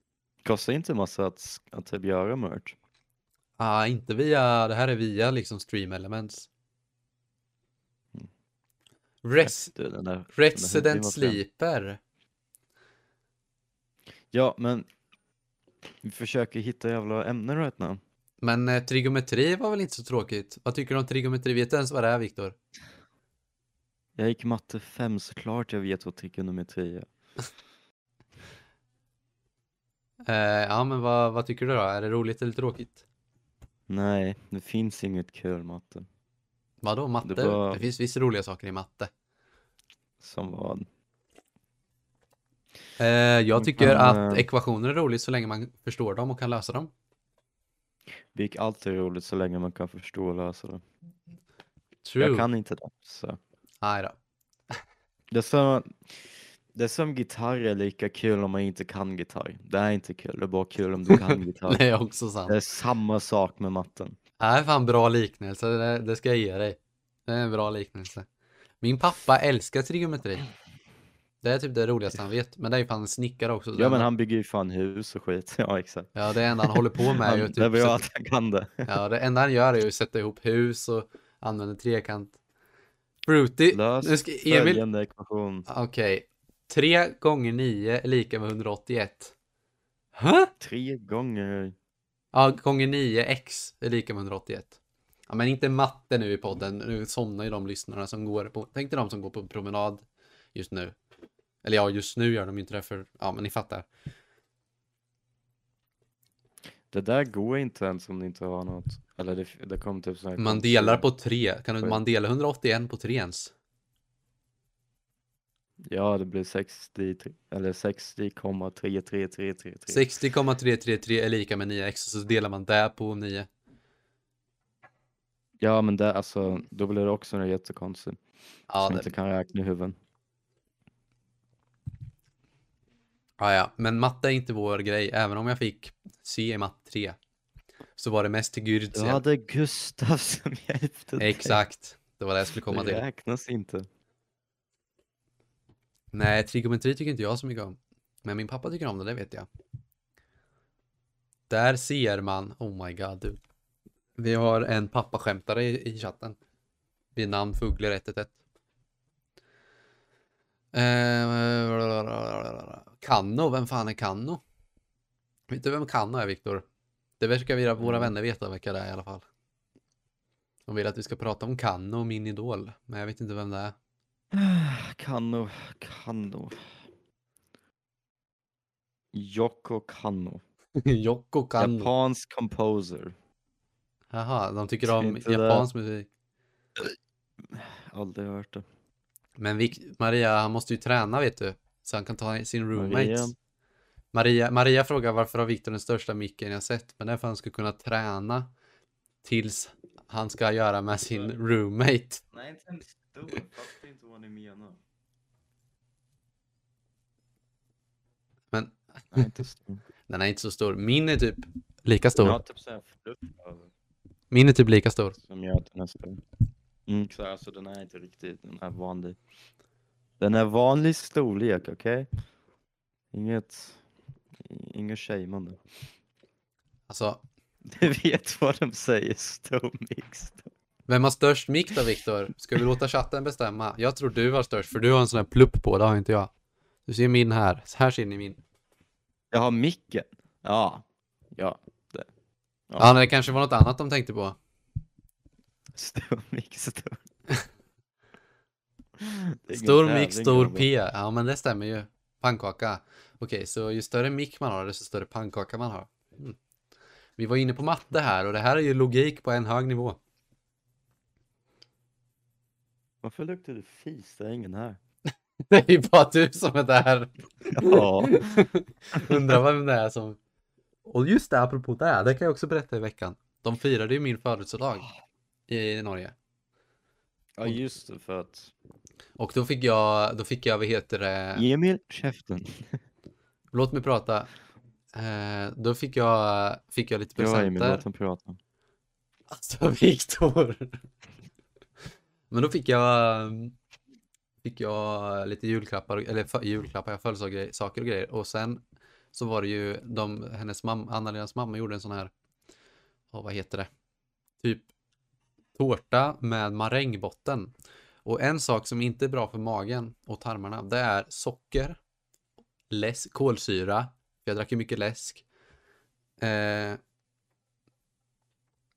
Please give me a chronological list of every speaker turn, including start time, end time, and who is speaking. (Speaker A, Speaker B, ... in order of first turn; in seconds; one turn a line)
Speaker A: 0.4-2.8
Speaker B: 3.6-6.5
Speaker B: 9.2-9.7
Speaker A: 9.4-11.4
Speaker B: 10.3-12.0
Speaker A: 14.3-14.9
Speaker A: 16.0-18.0
Speaker B: 18.4-22.6
Speaker A: 24.1-27.1
Speaker B: 30.2-33.0
Speaker A: 33.9-36.1
Speaker B: 36.8-39.1
Speaker A: 37.2-37.8
Speaker A: 40.2-40.9
Speaker B: 43.0-46.9
Speaker A: 43.5-44.5
Speaker A: 48.3-50.8
Speaker B: 52.0-52.5
Speaker A: 52.2-53.4
Speaker B: 53.8-54.1
Speaker A: 55.3-61.8
Speaker B: 61.1-62.5
Speaker A: 62.5-64.2
Speaker B: 64.4-68.3
Speaker B: 68.8-70.4
Speaker B: 71.4-74.1
Speaker A: 73.8-78.9
Speaker B: 76.2-78.0
Speaker B: 78.8-82.4
Speaker B: 83.2-84.8
Speaker A: 83.7-85.7
Speaker B: 85.7-89.3
Speaker B: 90.2-90.5
Speaker A: 90.6-91.7
Speaker B: 92.3-94.8
Speaker B: 95.3-101.0
Speaker B: 101.6-103.8
Speaker A: 106.9-111.1
Speaker B: 110.4-113.5
Speaker A: 115.8-120.1
Speaker B: 119.9-123.5
Speaker A: 125.6-128.2
Speaker B: 128.7-129.1
Speaker A: 128.8-130.0
Speaker B: 133.4-137.2
Speaker B: 138.0-139.2
Speaker A: 138.9-141.6
Speaker B: 141.2-143.0
Speaker A: 142.7-143.9
Speaker B: 146.1-149.5
Speaker B: 151.5-153.4
Speaker B: 154.2-156.3
Speaker B: 157.2-158.3
Speaker B: 160.7-164.4
Speaker B: 165.5-166.6
Speaker B: 167.2-169.2
Speaker A: 167.8-168.1
Speaker B: 170.7-173.7
Speaker A: 174.3-176.8
Speaker A: 179.1-180.4
Speaker B: 180.8-181.9
Speaker A: 181.6-183.1
Speaker B: 184.1-186.1
Speaker A: 184.8-185.7
Speaker A: 186.8-188.6
Speaker B: 189.4-193.3
Speaker A: 192.7-193.3
Speaker B: 194.1-198.5
Speaker B: 199.2-202.2
Speaker A: 202.3-204.8
Speaker B: 208.5-209.3
Speaker A: 209.1-209.8
Speaker B: 210.1-212.4
Speaker A: 212.2-213.7
Speaker B: 214.3-215.2
Speaker A: 215.2-216.2
Speaker A: 216.9-219.2
Speaker A: 220.2-222.1
Speaker A: 223.1-223.8
Speaker A: 224.4-225.6
Speaker B: 226.9-227.2
Speaker A: 227.7-230.5
Speaker B: 230.9-236.3
Speaker B: 236.8-238.4
Speaker A: 239.3-242.1
Speaker A: 242.7-242.9
Speaker B: 242.8-244.3
Speaker A: 245.7-247.0
Speaker A: 249.0-250.7
Speaker B: 249.5-256.4
Speaker B: 257.2-260.0
Speaker A: 263.0-264.8
Speaker B: 265.5-270.2
Speaker A: 267.5-268.4
Speaker A: 269.0-269.3
Speaker B: 270.8-274.9
Speaker B: 275.5-276.1
Speaker A: 277.4-278.5
Speaker B: 279.2-281.4
Speaker A: 281.4-282.8
Speaker B: 283.5-284.3
Speaker B: 284.9-287.8
Speaker A: 287.1-288.4
Speaker B: 289.3-290.8
Speaker B: 292.3-293.5
Speaker B: 294.4-298.6
Speaker B: 299.1-302.1
Speaker B: 303.1-303.7
Speaker B: 304.4-304.7
Speaker B: 305.6-307.5
Speaker B: 308.0-311.8
Speaker B: 312.7-315.2
Speaker B: 316.2-316.8